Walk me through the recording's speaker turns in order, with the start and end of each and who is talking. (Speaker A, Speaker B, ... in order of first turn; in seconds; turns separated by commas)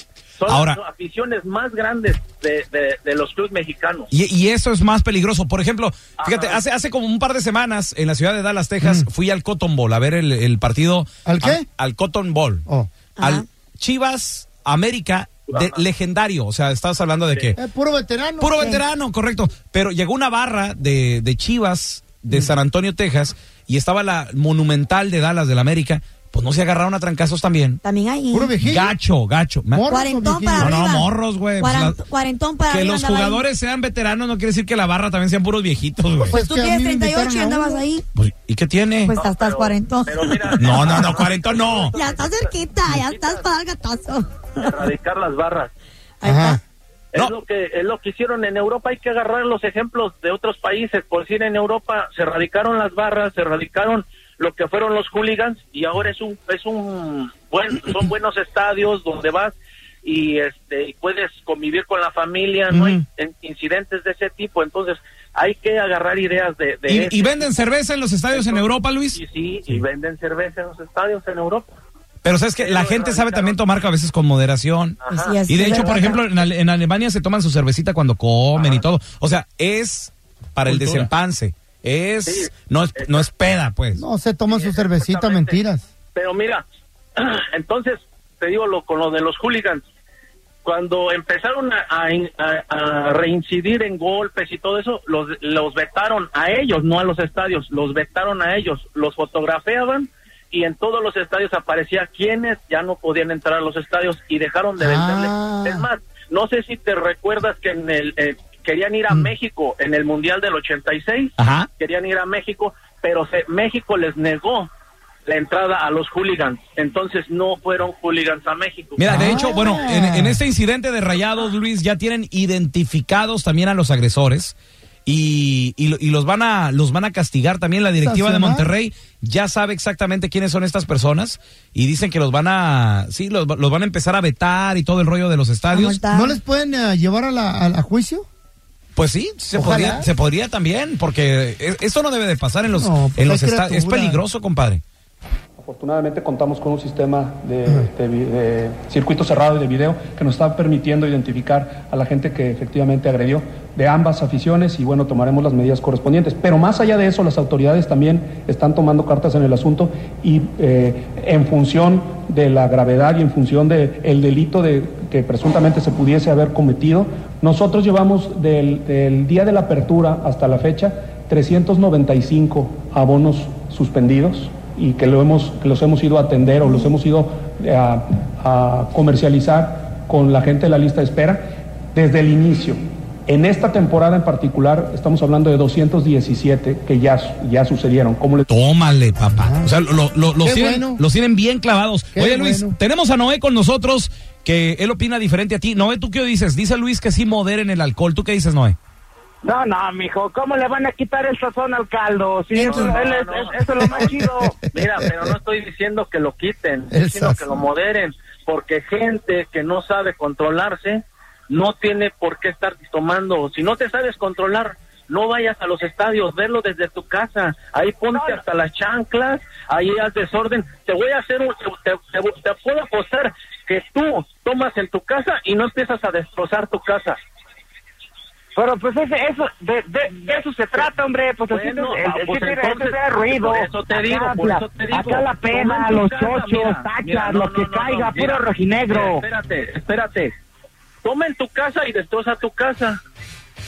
Speaker A: 0.4-4.1, Speaker B: 0.5-0.8, Speaker B: 4.1-12.6, Speaker A: 6.2-6.6, Speaker C: 8.8-9.1, Speaker C: 11.2-11.7, Speaker D: 13.2-13.4, Speaker B: 13.2-17.6, Speaker A: 15.5-15.8, Speaker C: 17.6-18.6, Speaker B: 18.4-27.8, Speaker D: 27.8-28.5, Speaker C: 28.3-28.9, Speaker B: 28.6-29.8, Speaker C: 29.7-30.8, Speaker D: 29.9-33.4, Speaker B: 30.6-32.0, Speaker B: 32.7-36.4, Speaker C: 36.3-37.8, Speaker D: 36.3-38.0, Speaker B: 38.2-39.1, Speaker D: 39.1-41.0, Speaker A: 39.2-43.5, Speaker B: 40.6-41.9, Speaker D: 41.9-44.6, Speaker A: 44.6-45.7, Speaker D: 46.2-46.6, Speaker C: 46.2-46.6, Speaker A: 47.1-67.6, Speaker B: 66.9-69.8, Speaker A: 68.3-71.8, Speaker B: 72.2-75.0, Speaker A: 72.6-73.6, Speaker A: 75.0-76.1, Speaker D: 75.1-76.2, Speaker B: 75.5-84.0, Speaker A: 78.5-78.8, Speaker A: 82.2-83.3, Speaker C: 83.9-85.9, Speaker A: 84.5-85.6, Speaker A: 86.2-86.6, Speaker A: 87.2-89.8, Speaker A: 90.6-114.7, Speaker C: 104.8-105.9, Speaker B: 111.4-111.7, Speaker A: 115.3-119.6, Speaker B: 119.0-124.5, Speaker C: 119.1-120.4, Speaker B: 125.1-136.0, Speaker C: 128.0-128.7, Speaker D: 135.7-136.3, Speaker C: 136.1-138.3, Speaker B: 138.9-144.8, Speaker C: 139.5-140.1, Speaker C: 142.7-144.2, Speaker E: 145.6-181.4, Speaker E: 181.9-188.4, Speaker B: 188.5-198.8, Speaker C: 189.3-189.7, Speaker C: 190.4-191.0, Speaker C: 192.1-192.8, Speaker F: 199.4-204.6, Speaker D: 202.5-202.9, Speaker A: 202.6-227.2, Speaker B: 202.6-202.9, Speaker C: 204.8-205.3, Speaker C: 206.9-207.6, Speaker F: 218.1-218.4, Speaker F: 228.6-239.2, Speaker A: 230.1-240.3, Speaker A: 241.0-243.0